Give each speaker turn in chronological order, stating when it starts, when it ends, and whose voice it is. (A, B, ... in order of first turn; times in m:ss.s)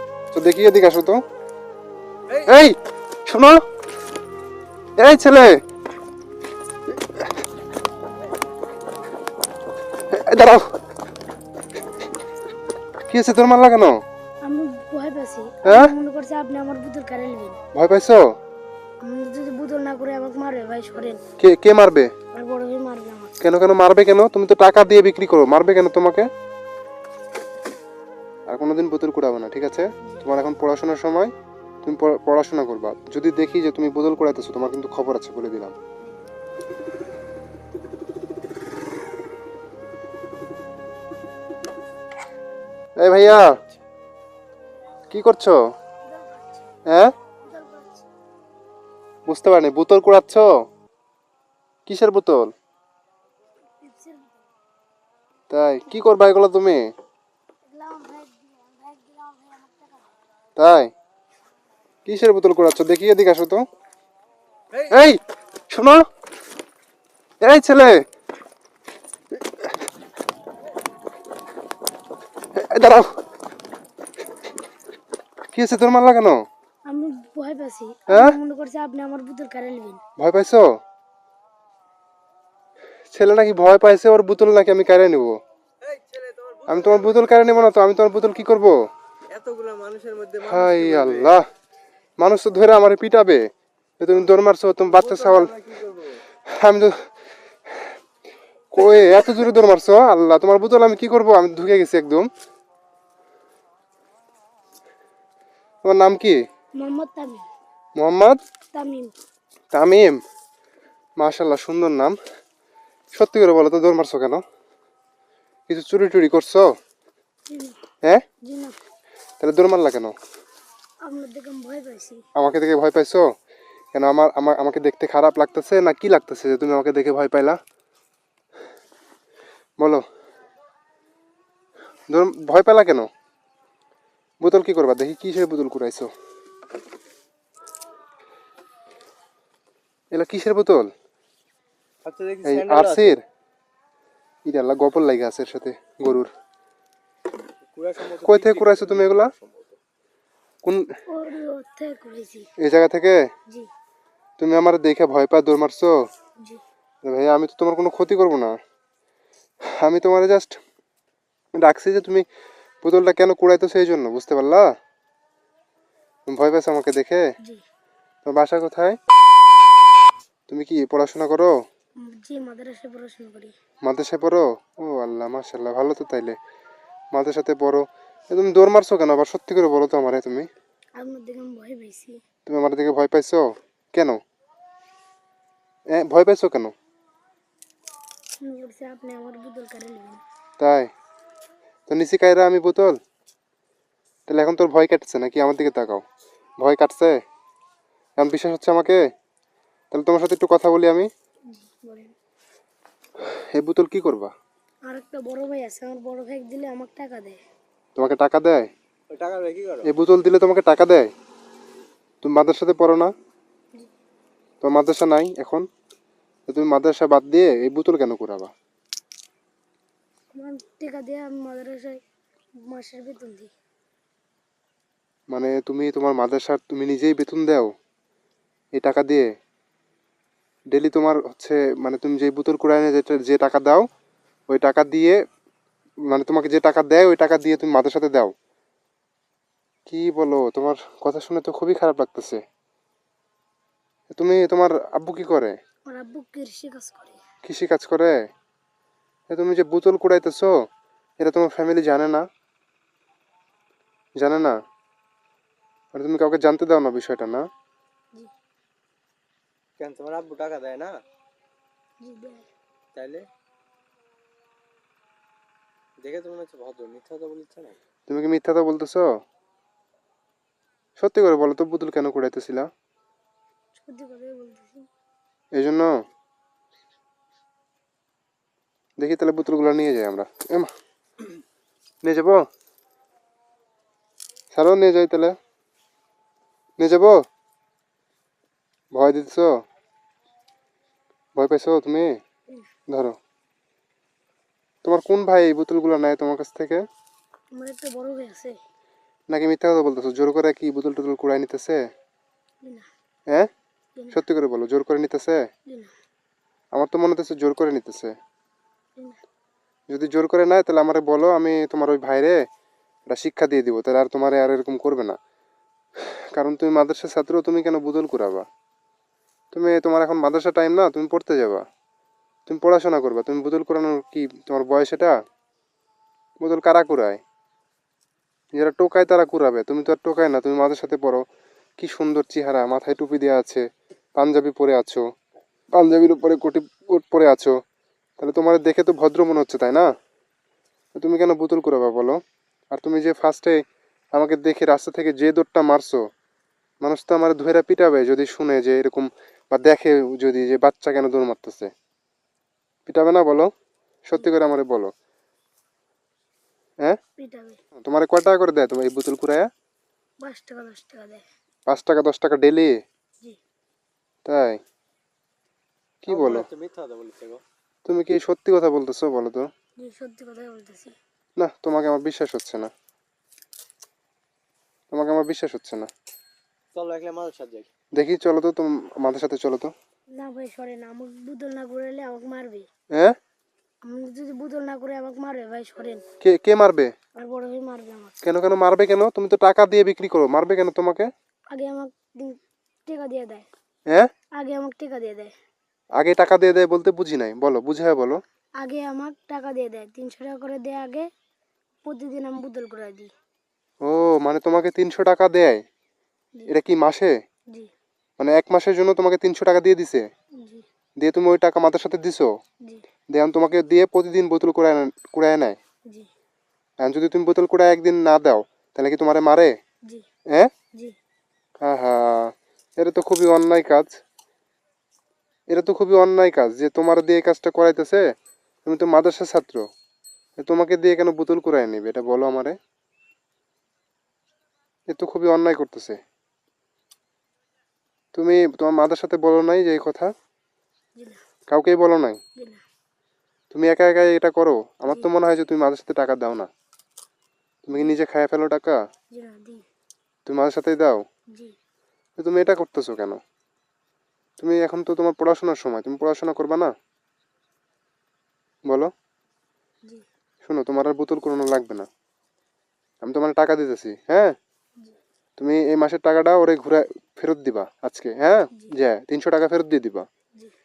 0:00.3-0:01.2 A
0:02.4-0:03.6 A
0:05.0-0:05.6 A
0:10.1-0:10.7 A
0:13.1-0:14.0 A
0:14.4-0:17.6 B
0:15.6-0:15.9 A
0:17.8-0:18.2 A
0:19.0-0:21.2 B
0:21.4-0:22.1 A
0:22.3-0:23.4 B
0:23.4-0:26.3 A
0:28.5-0:31.3 A
0:31.8-0:35.8 A
0:43.0-0:43.6 A
0:45.1-0:45.6 A
0:46.0-0:46.7 B
0:46.9-0:47.1 A
0:47.4-0:48.1 B
0:49.3-0:50.5 A
0:51.9-0:52.5 A
0:53.8-0:54.5 B
0:55.5-0:56.8 A
0:57.6-1:00.2 B
1:00.6-1:00.9 A
1:02.1-1:03.6 A
1:04.8-1:06.0 A
1:07.4-1:08.0 A
1:12.6-1:13.1 A
1:15.5-1:16.4 A
1:16.9-1:20.0 B
1:18.1-1:18.3 A
1:20.2-1:20.6 A
1:23.1-1:25.3 A
1:25.9-1:26.9 C
1:26.7-1:28.8 A
1:29.3-1:31.4 C
1:30.4-1:31.4 A
1:32.2-1:33.4 A
1:34.0-1:35.6 A
1:34.9-1:36.2 C
1:36.5-1:37.0 A
1:38.7-1:42.3 A
1:45.8-1:46.4 A
1:46.8-1:47.5 B
1:48.0-1:48.4 A
1:48.7-1:49.1 B
1:49.7-1:50.2 A
1:51.2-1:52.2 A
1:53.1-1:54.4 A
1:55.7-1:56.7 A
1:57.5-1:57.8 B
1:58.4-1:58.8 B
1:59.4-2:00.2 A
2:01.0-2:02.2 B
2:02.4-2:03.3 A
2:03.9-2:07.6 A
2:09.8-2:10.0 A
2:12.1-2:13.1 A
2:14.4-2:16.1 A
2:20.1-2:20.9 A
2:22.0-2:23.2 C
2:22.4-2:23.2 A
2:24.5-2:26.3 A
2:27.7-2:29.8 C
2:28.2-2:29.3 A
2:31.1-2:32.5 B
2:32.6-2:33.2 A
2:34.4-2:36.0 A
2:37.0-2:38.5 A
2:39.7-2:40.6 A
2:41.6-2:42.2 A
2:42.8-2:44.7 A
2:46.3-2:47.2 A
2:48.3-2:49.0 A
2:50.5-2:51.6 A
2:52.0-2:53.5 B
2:53.8-2:56.4 A
2:57.1-3:00.5 A
3:01.0-3:02.2 B
3:02.5-3:04.2 A
3:06.0-3:06.7 A
3:08.4-3:10.2 B
3:10.6-3:10.9 A
3:11.9-3:13.0 A
3:14.3-3:16.0 A
3:16.6-3:17.2 A
3:18.2-3:19.0 A
3:19.9-3:21.1 A
3:21.5-3:22.1 B
3:23.3-3:24.3 A
3:24.9-3:27.4 B
3:28.0-3:28.7 A
3:29.1-3:29.9 C
3:29.8-3:31.1 A
3:32.2-3:33.1 A
3:34.6-3:35.6 A
3:36.5-3:38.5 A
3:40.4-3:42.0 B
3:42.7-3:43.5 B
3:45.3-3:47.7 A
3:48.8-3:49.3 A
3:50.7-3:53.9 A
3:54.5-3:55.2 A
3:56.1-3:58.3 A
3:59.9-4:02.4 A
4:04.1-4:05.6 A
4:05.9-4:07.2 B
4:07.4-4:08.3 A
4:09.3-4:10.6 A
4:11.2-4:12.3 A
4:14.2-4:14.6 A
4:15.9-4:17.5 A
4:19.8-4:21.0 C
4:22.0-4:22.5 B
4:22.9-4:23.3 C
4:26.0-4:27.8 C
4:28.1-4:29.1 A
4:31.0-4:32.7 A
4:33.8-4:34.9 B
4:35.6-4:35.9 A
4:39.0-4:40.7 A
4:42.0-4:42.4 A
4:44.5-4:45.4 A
4:46.8-4:47.2 A
4:49.0-4:49.5 A
4:51.4-4:52.2 A
4:52.9-4:53.2 A
4:54.8-4:56.8 A
4:57.6-4:58.6 B
4:59.3-5:01.8 A
5:04.0-5:04.2 B
5:04.1-5:05.4 A
5:05.7-5:05.9 B
5:06.7-5:08.1 A
5:09.9-5:12.4 A
5:13.1-5:15.2 A
5:16.0-5:18.4 A
5:19.5-5:21.6 A
5:22.5-5:25.2 A
5:26.4-5:27.2 A
5:28.5-5:31.2 A
5:31.8-5:33.6 A
5:34.2-5:35.0 A
5:35.8-5:37.6 A
5:38.2-5:39.9 A
5:41.0-5:42.2 A
5:42.7-5:43.6 A
5:44.1-5:46.0 A
5:46.8-5:51.7 A
5:52.9-5:53.5 A
5:54.1-5:54.9 A
5:57.2-5:57.6 B
5:57.8-5:59.5 A
6:00.2-6:01.2 B
6:01.7-6:02.8 A
6:04.3-6:04.6 A
6:06.0-6:06.5 A
6:06.1-6:07.4 C
6:07.9-6:09.5 A
6:09.8-6:11.0 B
6:11.4-6:12.7 A
6:14.9-6:15.9 A
6:16.7-6:17.7 C
6:17.9-6:19.7 A
6:20.1-6:22.7 B
6:23.8-6:26.0 B
6:26.2-6:26.9 A
6:27.2-6:28.2 B
6:28.2-6:31.1 A
6:31.5-6:33.5 B
6:34.4-6:35.3 B
6:36.0-6:38.2 A
6:38.6-6:41.1 B
6:41.8-6:43.1 B
6:43.8-6:45.6 A
6:46.5-6:47.1 A
6:48.2-6:50.1 A
6:50.4-6:50.6 B
6:51.0-6:52.3 A
6:53.1-6:55.6 A
6:56.8-6:59.6 A
7:01.6-7:03.9 A
7:05.5-7:08.0 A
7:08.7-7:09.6 A
7:10.4-7:12.6 A
7:14.9-7:16.0 A
7:18.2-7:20.1 A
7:21.0-7:21.2 B
7:21.5-7:22.2 A
7:22.4-7:22.6 B
7:23.5-7:26.5 A
7:27.7-7:28.8 A
7:29.1-7:29.6 B
7:30.3-7:31.0 A
7:32.2-7:33.2 A
7:34.4-7:36.7 A
7:40.4-7:41.9 A
7:43.0-7:44.4 A
7:45.4-7:50.1 A